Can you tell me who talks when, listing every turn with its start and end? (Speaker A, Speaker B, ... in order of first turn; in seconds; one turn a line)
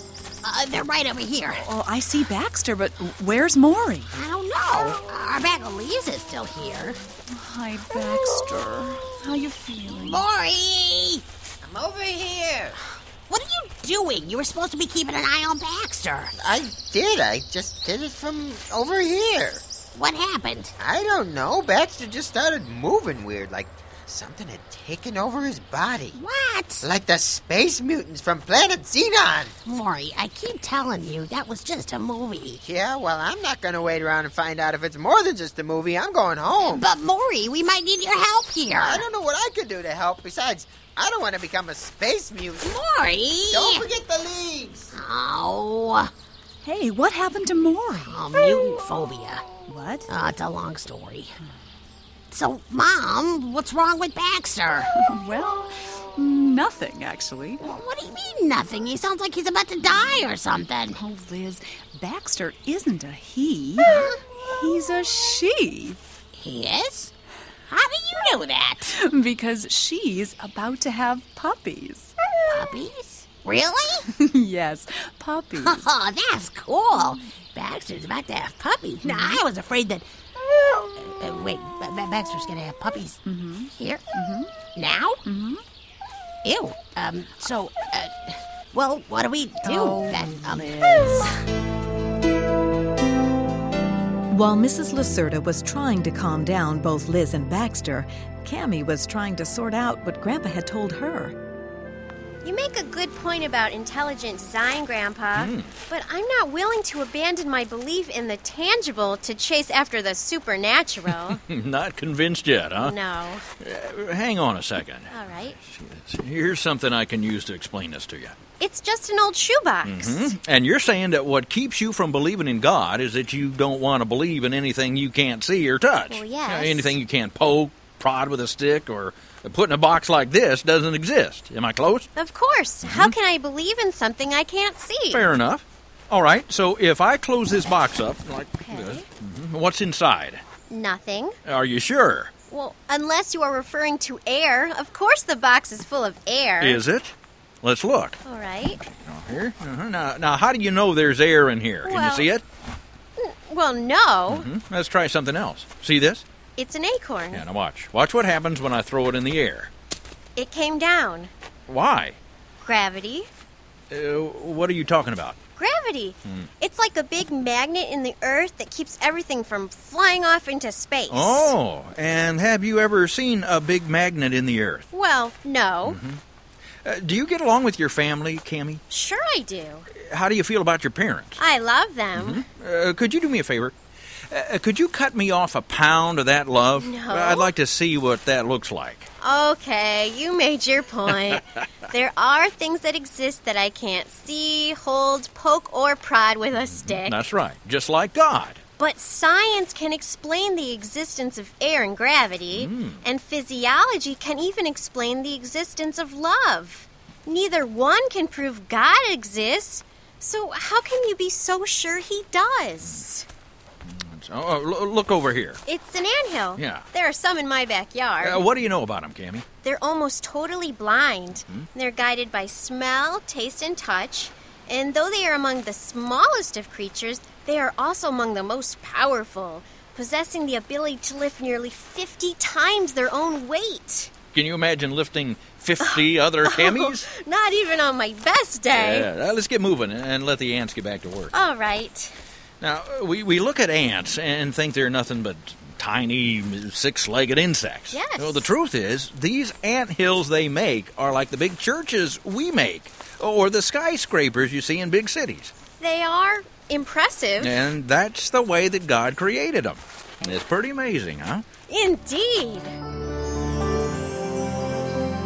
Speaker A: 0.4-1.6
Speaker B: 1.6-4.1
Speaker A: 4.1-7.0
Speaker B: 7.3-10.2
Speaker A: 9.9-11.2
Speaker C: 11.6-12.8
Speaker A: 13.3-16.3
Speaker C: 16.4-19.6
Speaker A: 19.9-20.7
Speaker C: 20.8-26.2
Speaker A: 26.1-26.9
Speaker C: 26.8-29.5
Speaker A: 29.6-32.6
Speaker C: 32.6-36.8
Speaker A: 36.6-39.0
Speaker C: 38.8-42.8
Speaker A: 42.6-43.9
Speaker C: 43.5-44.9
Speaker A: 44.9-46.1
Speaker B: 46.6-48.2
Speaker A: 48.0-49.5
Speaker B: 49.7-50.1
Speaker A: 50.1-51.4
Speaker A: 52.3-54.9
Speaker B: 54.9-57.6
Speaker A: 57.6-61.0
Speaker B: 60.9-63.9
Speaker A: 63.8-64.2
Speaker B: 64.4-66.0
Speaker A: 66.3-67.1
Speaker A: 67.7-68.9
Speaker B: 68.9-72.1
Speaker A: 72.5-74.1
Speaker B: 74.1-75.9
Speaker A: 75.6-80.0
Speaker B: 76.9-77.2
Speaker B: 79.0-79.4
Speaker A: 81.0-84.0
Speaker B: 83.2-84.5
Speaker A: 84.6-85.2
Speaker B: 85.2-85.6
Speaker A: 86.4-91.3
Speaker B: 89.6-91.2
Speaker D: 94.3-101.3
Speaker E: 102.4-111.4
Speaker F: 105.3-105.7
Speaker F: 111.2-113.0
Speaker E: 112.8-113.4
Speaker F: 113.6-118.3
Speaker E: 115.1-115.5
Speaker E: 118.6-120.3
Speaker F: 119.8-132.1
Speaker E: 126.1-127.0
Speaker E: 132.2-135.2
Speaker F: 132.8-133.1
Speaker F: 135.1-140.4
Speaker E: 138.6-139.0
Speaker E: 140.7-141.4
Speaker F: 141.4-142.3
Speaker E: 142.5-146.8
Speaker F: 146.6-148.2
Speaker E: 148.2-148.8
Speaker F: 148.8-152.4
Speaker E: 151.8-152.3
Speaker E: 153.2-154.5
Speaker F: 154.3-156.2
Speaker E: 156.6-157.4
Speaker F: 157.3-159.7
Speaker E: 160.3-161.3
Speaker F: 161.7-162.2
Speaker E: 162.6-163.3
Speaker F: 163.9-165.4
Speaker E: 165.6-171.5
Speaker F: 171.1-174.9
Speaker E: 174.9-176.0
Speaker F: 175.8-176.2
Speaker F: 176.8-178.8
Speaker E: 178.9-179.9
Speaker F: 179.9-181.4
Speaker E: 181.4-182.4
Speaker F: 182.1-183.7
Speaker F: 184.3-189.1
Speaker E: 186.8-187.5
Speaker E: 189.2-197.2
Speaker F: 191.3-191.7
Speaker F: 196.5-198.6
Speaker E: 198.8-213.2
Speaker F: 202.5-203.0
Speaker F: 213.8-215.6
Speaker E: 215.7-218.4
Speaker F: 216.6-216.8
Speaker F: 218.2-219.4
Speaker E: 219.6-234.1
Speaker F: 234.3-237.1
Speaker E: 235.8-239.1
Speaker F: 238.7-241.3
Speaker E: 241.3-242.1
Speaker F: 242.6-255.5
Speaker E: 247.9-248.4
Speaker E: 255.8-257.6
Speaker F: 257.4-261.4
Speaker E: 261.7-262.7